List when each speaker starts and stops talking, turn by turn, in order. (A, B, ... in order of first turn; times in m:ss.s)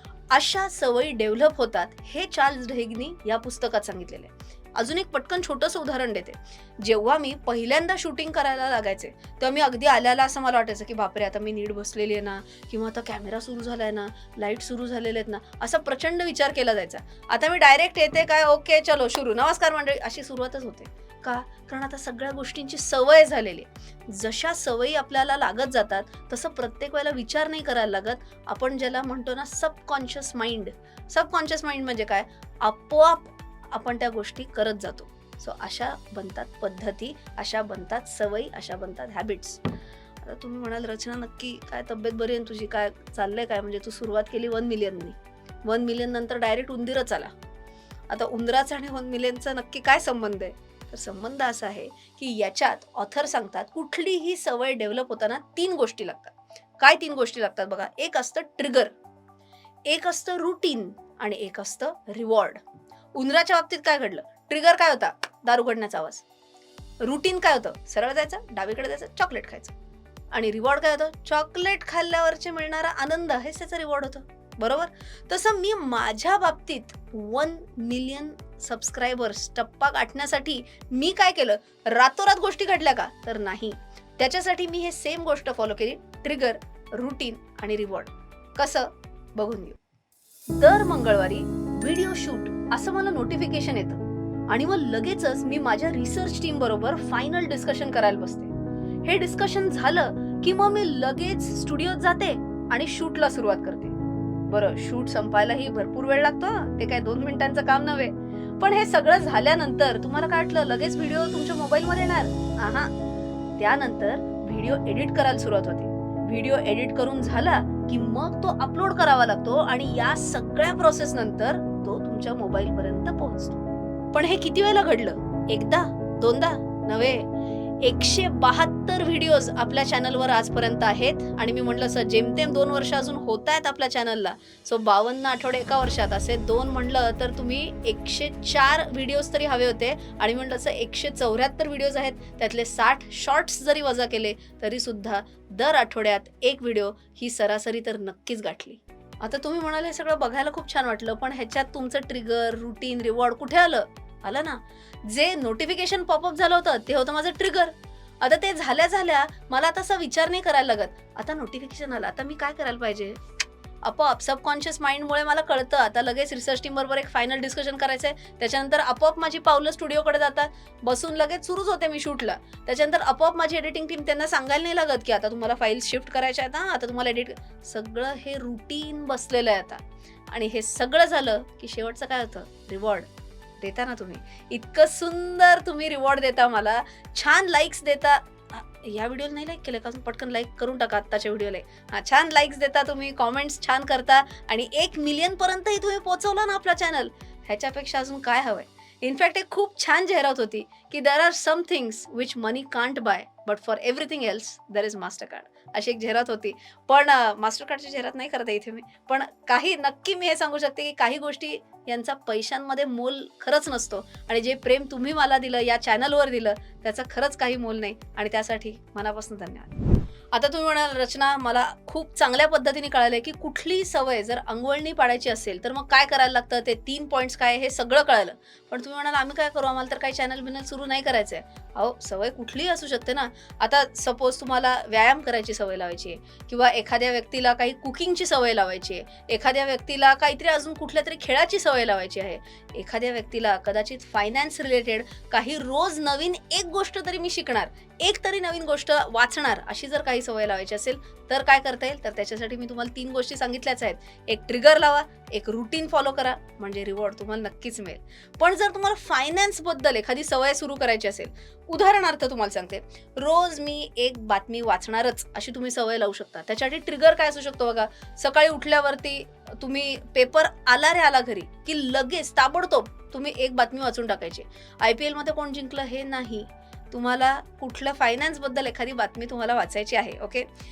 0:00.3-0:39.6 A
0:40.2-0:47.3 A
0:48.1-0:58.9 A
0:59.9-1:02.6 A
1:03.1-1:06.2 A
1:07.0-1:09.7 A
1:10.3-1:29.8 A
1:30.5-1:38.5 A
1:39.0-1:44.0 A
1:44.5-1:52.9 A
1:53.6-2:03.6 A
2:04.1-2:07.2 A
2:07.8-2:43.2 A
2:43.8-3:03.1 A
3:03.6-3:39.7 A
3:40.3-4:40.5 A